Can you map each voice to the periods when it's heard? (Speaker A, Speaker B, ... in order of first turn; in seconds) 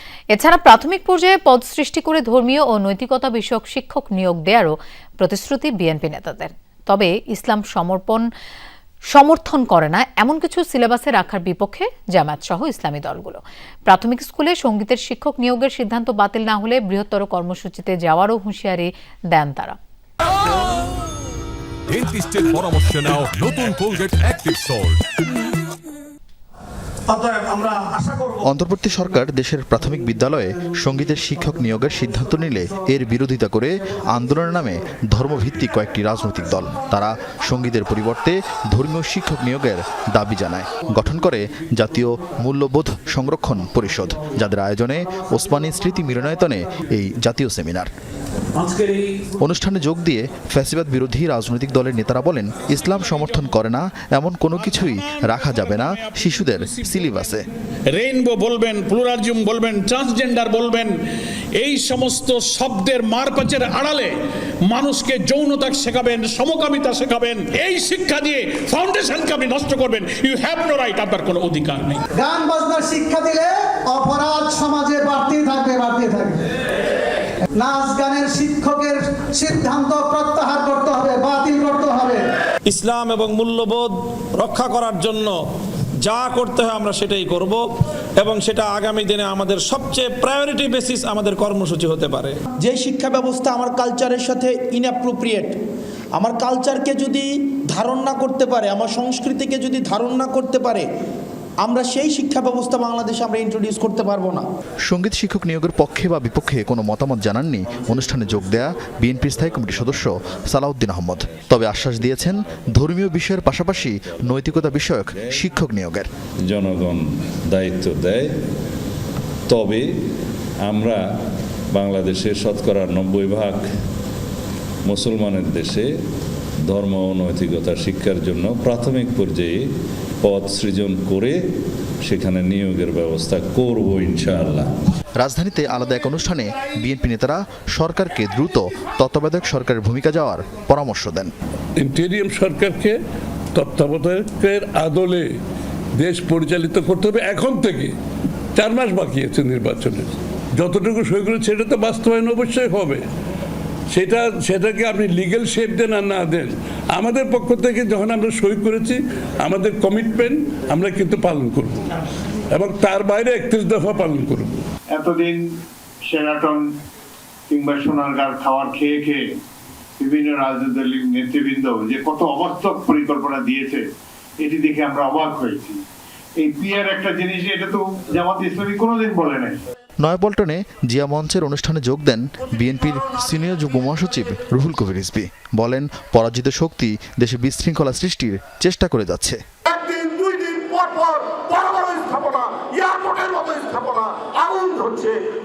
Speaker A: 0.3-8.3, 9.1-19.8
Speaker B: 21.9-25.0, 189.7-195.2
Speaker C: 28.4-47.9, 49.4-57.4, 104.9-116.1, 135.2-141.3, 180.0-189.4
Speaker D: 55.4-57.3, 57.9-60.9, 61.5-64.1, 64.7-72.0
Speaker E: 72.2-76.4, 77.6-82.2
Speaker F: 82.7-85.3, 86.1-87.6, 88.2-92.4
Speaker G: 92.6-95.5, 96.2-100.8, 101.6-104.4
Speaker H: 113.5-115.4, 116.5-118.3, 119.5-119.8, 120.6-121.0, 121.7-123.6, 124.8-125.9, 126.7-129.6, 130.2-131.3, 132.0-134.7
Speaker I: 141.8-142.9, 143.5-145.3, 146.0-147.9, 148.6-153.0, 153.9-161.9, 162.5-164.5
Speaker J: 164.9-165.5, 166.0-166.7, 167.5-169.3, 170.0-173.9, 174.4-175.8, 176.4-179.6